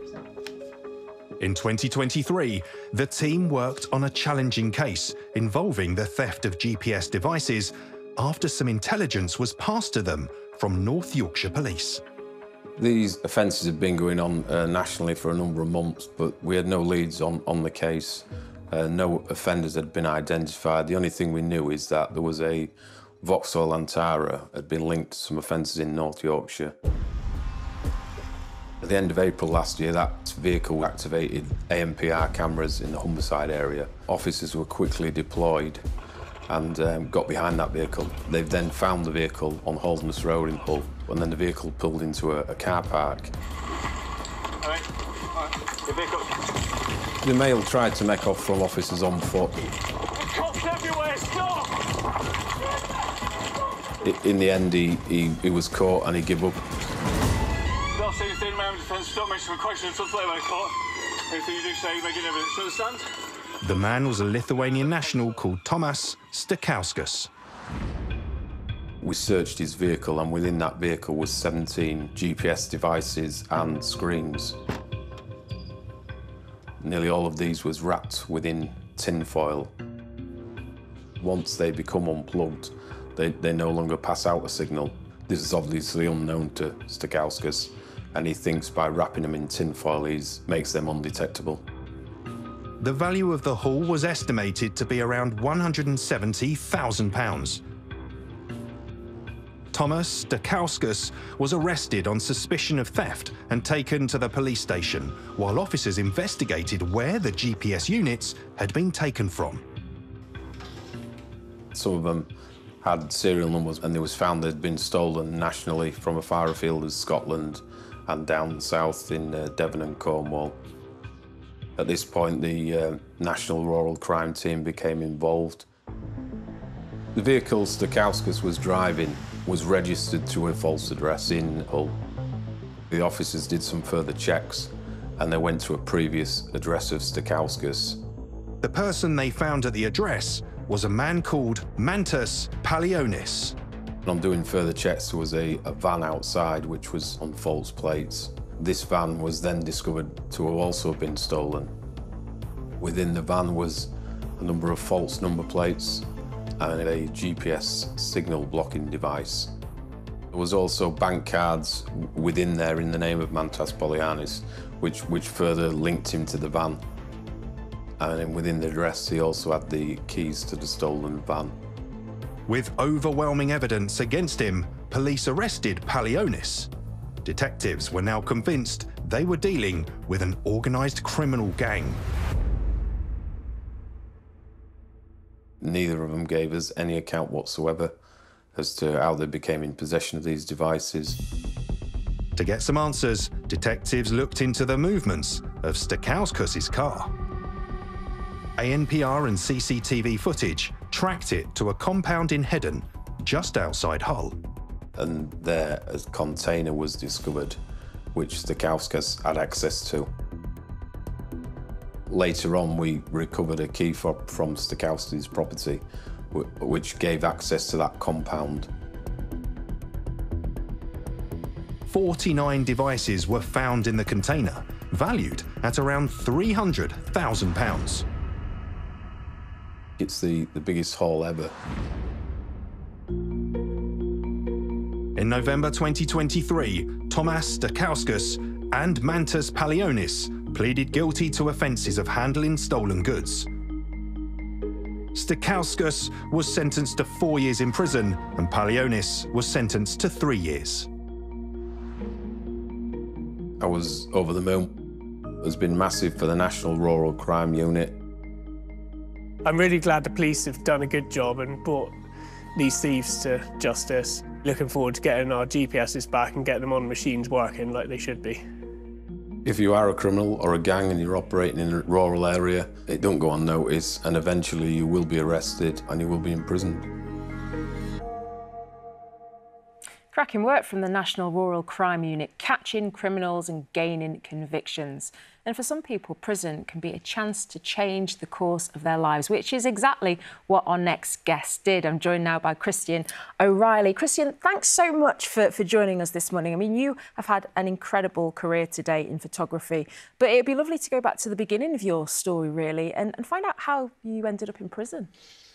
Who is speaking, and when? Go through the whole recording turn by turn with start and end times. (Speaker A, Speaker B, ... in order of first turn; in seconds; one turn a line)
Speaker A: 1.4-12.0
Speaker B: 12.8-26.7
Speaker B: 28.8-35.9
Speaker B: 36.5-43.3
Speaker C: 44.6-46.3
Speaker B: 47.2-49.7
Speaker C: 50.1-51.8
Speaker B: 54.0-56.6
Speaker C: 57.9-60.7
Speaker C: 61.3-63.0
Speaker A: 63.6-67.3
Speaker B: 69.0-74.6
Speaker B: 76.8-79.7
Speaker B: 81.2-91.7
Speaker A: 92.8-97.6
Speaker A: 99.7-109.6
Speaker B: 111.7-112.3
Speaker B: 112.8-120.6
Speaker B: 121.8-125.7
Speaker B: 127.1-132.0
Speaker B: 132.9-138.0
Speaker A: 138.6-143.6
Speaker B: 144.0-151.7
Speaker B: 152.8-159.5
Speaker B: 160.3-166.8
Speaker B: 168.0-171.5
Speaker A: 172.5-176.7
Speaker A: 177.2-182.0
Speaker B: 185.6-187.9
Speaker B: 188.5-191.2
Speaker A: 192.3-197.1
Speaker A: 198.6-204.4
Speaker B: 204.9-207.6
Speaker B: 208.1-210.1
Speaker B: 212.1-218.7
Speaker A: 221.9-228.0
Speaker B: 230.0-231.5
Speaker A: 235.2-243.5
Speaker A: 245.1-250.9
Speaker B: 253.6-254.8
Speaker B: 255.4-257.9
Speaker D: 259.4-261.9
Speaker D: 262.5-268.4
Speaker B: 269.4-276.9
Speaker E: 280.1-305.1